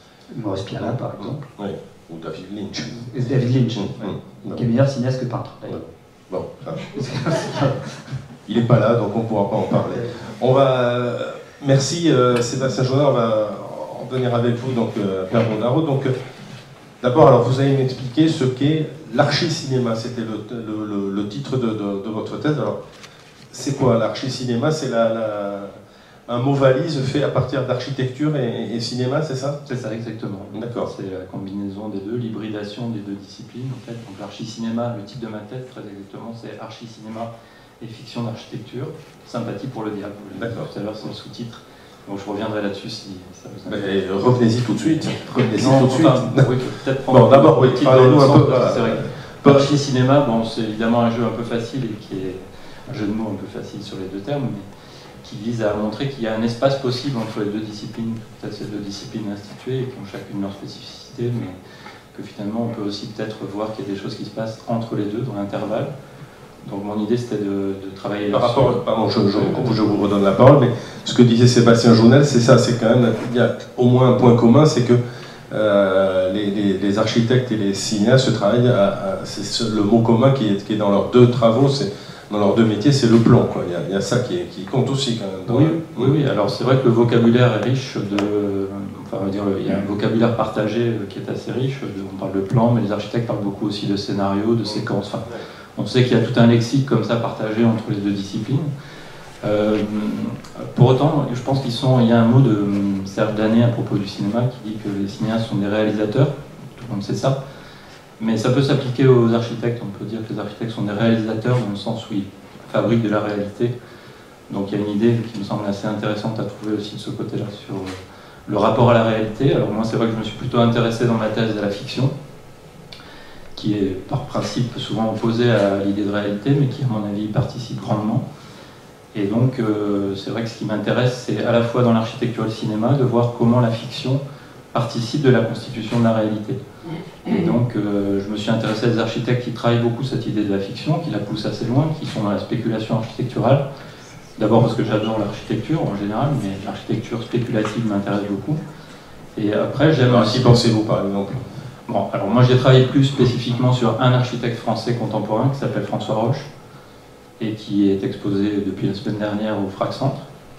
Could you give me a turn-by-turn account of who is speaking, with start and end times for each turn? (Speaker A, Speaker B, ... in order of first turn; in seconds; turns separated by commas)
Speaker A: 0.3-1.4, Speaker B: 0.8-3.1, Speaker A: 2.9-5.8, Speaker B: 3.7-4.6, Speaker B: 5.7-6.9, Speaker A: 6.8-7.9, Speaker B: 8.5-16.1, Speaker B: 17.0-22.8, Speaker B: 23.5-29.6, Speaker C: 29.6-44.0, Speaker B: 30.5-30.9, Speaker B: 40.4-40.7, Speaker B: 43.7-46.5, Speaker C: 45.5-54.7, Speaker B: 47.1-49.8, Speaker C: 55.2-61.6, Speaker C: 62.1-65.9, Speaker C: 66.6-69.8, Speaker B: 68.3-86.2, Speaker C: 85.5-98.7, Speaker B: 94.7-95.4, Speaker C: 99.4-107.4, Speaker C: 108.2-113.7, Speaker C: 114.5-122.1, Speaker C: 123.5-128.2, Speaker C: 129.1-134.2, Speaker C: 134.7-136.6, Speaker C: 137.2-143.6, Speaker C: 144.4-148.6, Speaker C: 149.3-150.6, Speaker B: 150.1-151.4, Speaker C: 151.9-156.5, Speaker C: 157.4-160.2